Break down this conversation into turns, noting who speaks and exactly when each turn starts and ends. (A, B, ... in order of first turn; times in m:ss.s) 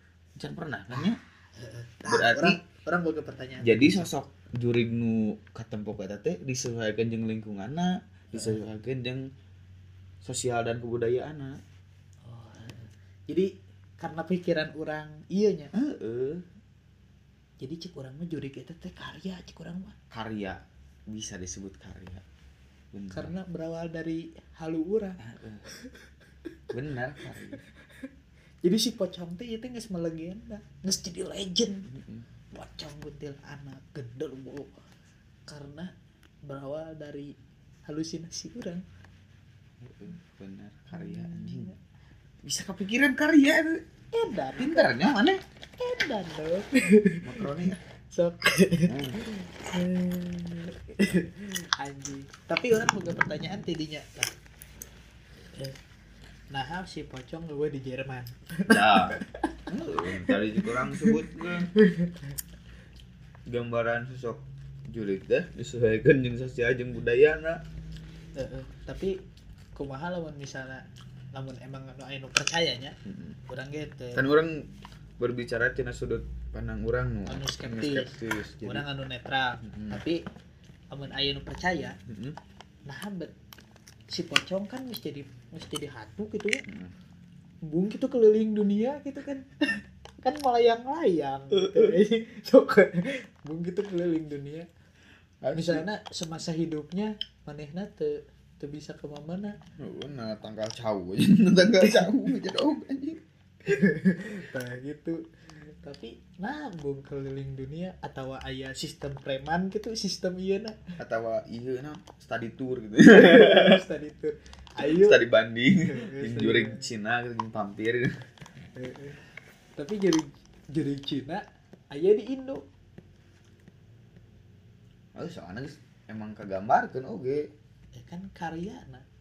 0:00.4-0:01.2 A
0:00.9-0:04.0 B
0:02.1-0:02.6 A
0:03.6-0:09.3 A
0:10.2-0:11.6 A
0:12.2-0:15.7 B
0:15.7-0:16.4 A
0:17.6-0:20.0 B
0:20.1-0:22.2 A
0:22.9-0:23.3 A
0:23.1-0:25.2 B
0:25.2-0:25.6 A
0:26.7-0:27.6 A
0:28.6-0:31.9 B
0:31.9-0:32.3 A
0:32.5-0:34.7 B
0:35.5-0:35.9 B
0:36.4-0:37.3 B
0:37.9-0:38.8 B
0:39.8-0:41.7 A
0:40.9-0:41.8 B
0:42.4-0:43.8 A
0:44.1-0:44.9 B
0:44.6-0:45.4 A
0:45.8-0:47.5 B
0:47.2-0:47.8 A
0:48.1-0:54.3 B
0:48.8-0:49.2 A
0:56.5-1:01.2 B
0:58.7-1:01.7 A
1:01.7-1:02.2 B
1:03.5-1:07.6 A
1:08.4-1:09.2 B
1:09.8-1:13.0 B
1:13.0-1:13.4 A
1:13.5-1:14.2 B
1:14.1-1:18.8 A
1:17.2-1:20.2 B
1:19.6-1:20.0 A
1:20.9-1:22.0 B
1:22.1-1:22.4 A
1:22.9-1:23.3 B
1:24.1-1:26.6 B
1:26.6-1:26.9 A
1:27.6-1:34.7 B
1:31.5-1:32.0 A
1:35.4-1:35.8 A
1:35.5-1:39.6 B
1:39.8-1:43.2 A
1:43.6-1:50.8 B
1:51.0-1:53.8 A
1:53.0-1:55.2 B
1:54.8-1:58.1 A
1:55.8-1:56.8 B
1:58.7-1:59.2 B
1:59.8-2:02.6 B
2:05.1-2:07.5 A
2:07.9-2:09.0 B